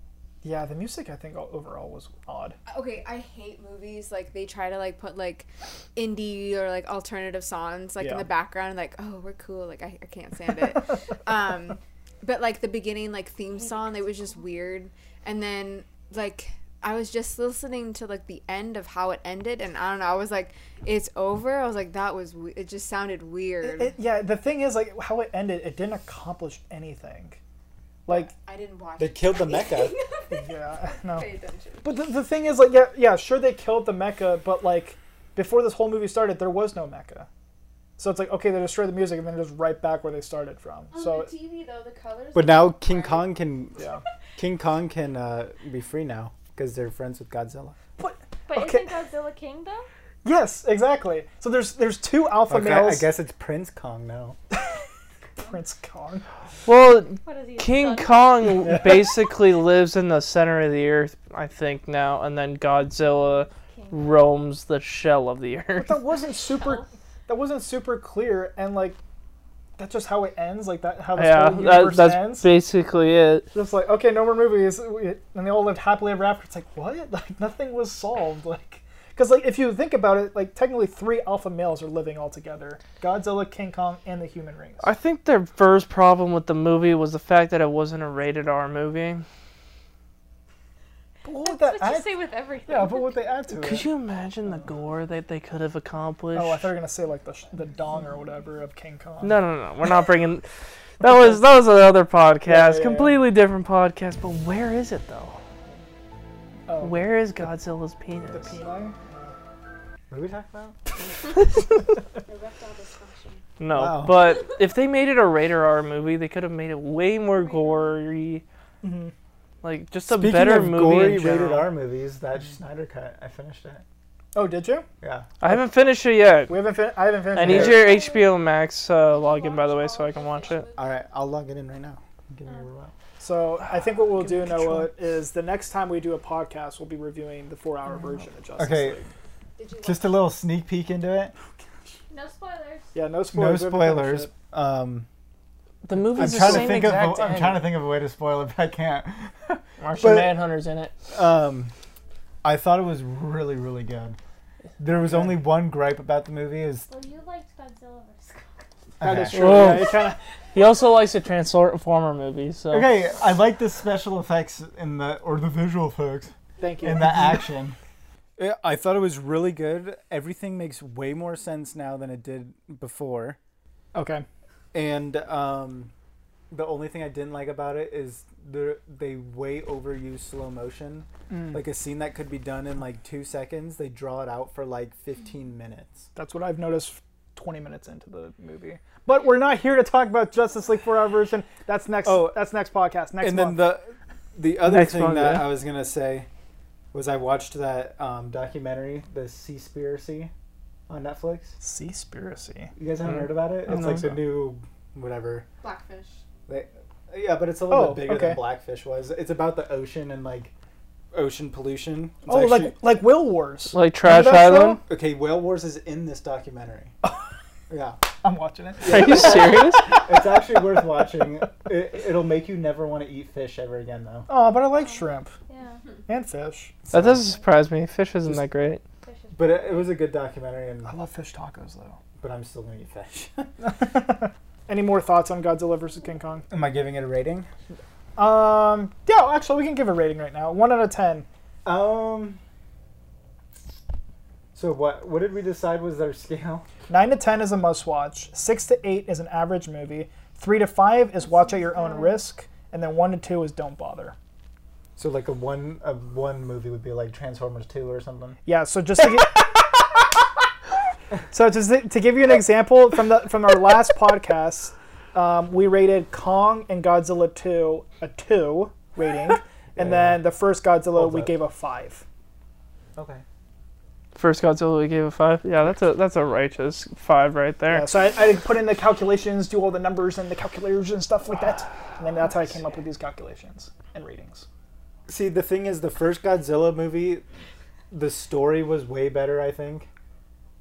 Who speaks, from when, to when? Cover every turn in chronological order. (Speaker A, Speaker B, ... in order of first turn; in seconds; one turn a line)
Speaker A: 0.4-2.6
Speaker B: 2.7-24.0
Speaker A: 8.0-8.3
Speaker C: 13.5-14.4
Speaker A: 23.6-27.4
Speaker A: 28.1-28.3
Speaker B: 28.1-31.9
Speaker D: 29.0-29.9
Speaker A: 30.3-31.3
Speaker A: 31.8-37.3
Speaker A: 38.0-41.3
Speaker B: 40.9-43.8
Speaker D: 42.3-43.8
Speaker D: 44.4-47.8
Speaker A: 48.0-49.0
Speaker C: 48.5-49.9
Speaker A: 50.2-53.1
Speaker D: 52.5-54.4
Speaker A: 55.4-56.2
Speaker E: 56.6-66.0
Speaker C: 57.2-58.5
Speaker C: 63.7-64.1
Speaker A: 65.8-69.0
Speaker C: 66.6-66.9
Speaker A: 69.8-72.5
Speaker E: 71.2-73.5
Speaker A: 73.5-84.9
Speaker E: 84.8-89.2
Speaker A: 91.2-93.9
Speaker C: 91.4-93.4
Speaker E: 93.5-96.7
Speaker A: 96.3-99.4
Speaker E: 99.2-100.4
Speaker E: 101.0-105.4
Speaker A: 101.0-101.4
Speaker A: 102.5-103.2
Speaker A: 106.7-107.1
Speaker E: 106.8-108.6
Speaker A: 108.2-109.3
Speaker D: 110.1-110.8
Speaker C: 112.2-113.4
Speaker E: 113.6-118.4
Speaker D: 113.7-114.2
Speaker C: 117.3-118.0
Speaker A: 118.8-119.1
Speaker E: 119.6-121.7
Speaker D: 120.1-123.8
Speaker A: 124.3-124.9
Speaker D: 125.0-125.3
Speaker E: 125.4-126.6
Speaker A: 126.5-127.8
Speaker E: 127.3-130.7
Speaker D: 127.5-127.9
Speaker C: 127.7-128.5
Speaker C: 129.1-131.0
Speaker D: 130.8-132.9
Speaker A: 133.2-139.1
Speaker E: 134.2-134.9
Speaker D: 138.6-139.0
Speaker B: 139.6-140.3
Speaker D: 139.8-141.3
Speaker C: 142.1-143.0
Speaker A: 142.9-144.3
Speaker D: 143.3-145.1
Speaker E: 145.8-147.7
Speaker D: 146.1-150.4
Speaker A: 146.2-146.7
Speaker E: 149.8-150.9
Speaker D: 151.1-151.7
Speaker D: 152.4-154.2
Speaker D: 154.8-156.9
Speaker A: 155.0-155.4
Speaker C: 156.9-158.7
Speaker D: 159.0-159.9
Speaker A: 159.0-160.2
Speaker E: 159.3-160.0
Speaker E: 160.5-162.9
Speaker D: 162.7-167.8
Speaker A: 166.6-167.4
Speaker D: 168.4-173.4
Speaker A: 173.9-174.2
Speaker D: 174.7-175.9
Speaker D: 176.5-186.1
Speaker A: 181.3-181.6
Speaker A: 186.1-193.7
Speaker D: 192.0-192.3
Speaker D: 193.2-196.3
Speaker E: 194.6-195.5
Speaker D: 196.9-200.3
Speaker D: 200.9-201.6
Speaker A: 201.6-202.7
Speaker D: 202.8-205.5
Speaker A: 203.7-204.2
Speaker B: 205.6-206.2
Speaker D: 206.5-210.5
Speaker A: 207.7-208.4
Speaker D: 211.1-212.8
Speaker A: 212.2-214.8
Speaker E: 213.7-214.8
Speaker D: 214.8-216.9
Speaker D: 217.7-218.0
Speaker A: 218.2-219.6
Speaker D: 218.8-224.3
Speaker E: 218.9-219.9
Speaker A: 224.3-225.3
Speaker C: 224.8-225.9
Speaker A: 226.1-226.8
Speaker D: 226.9-227.2
Speaker E: 226.9-228.8
Speaker C: 229.0-229.7
Speaker D: 229.3-230.9
Speaker A: 230.8-232.0
Speaker D: 232.2-233.5
Speaker A: 233.6-236.5
Speaker D: 236.5-237.5
Speaker A: 238.2-241.2
Speaker D: 241.6-242.4
Speaker D: 244.5-246.7
Speaker A: 246.9-254.2
Speaker C: 251.2-252.2
Speaker D: 255.0-258.4
Speaker A: 258.4-259.5
Speaker A: 261.3-272.0
Speaker D: 269.8-270.2
Speaker D: 270.9-271.4
Speaker D: 273.0-273.2
Speaker E: 274.1-277.9
Speaker A: 277.7-284.5
Speaker D: 285.1-287.2
Speaker D: 287.9-289.9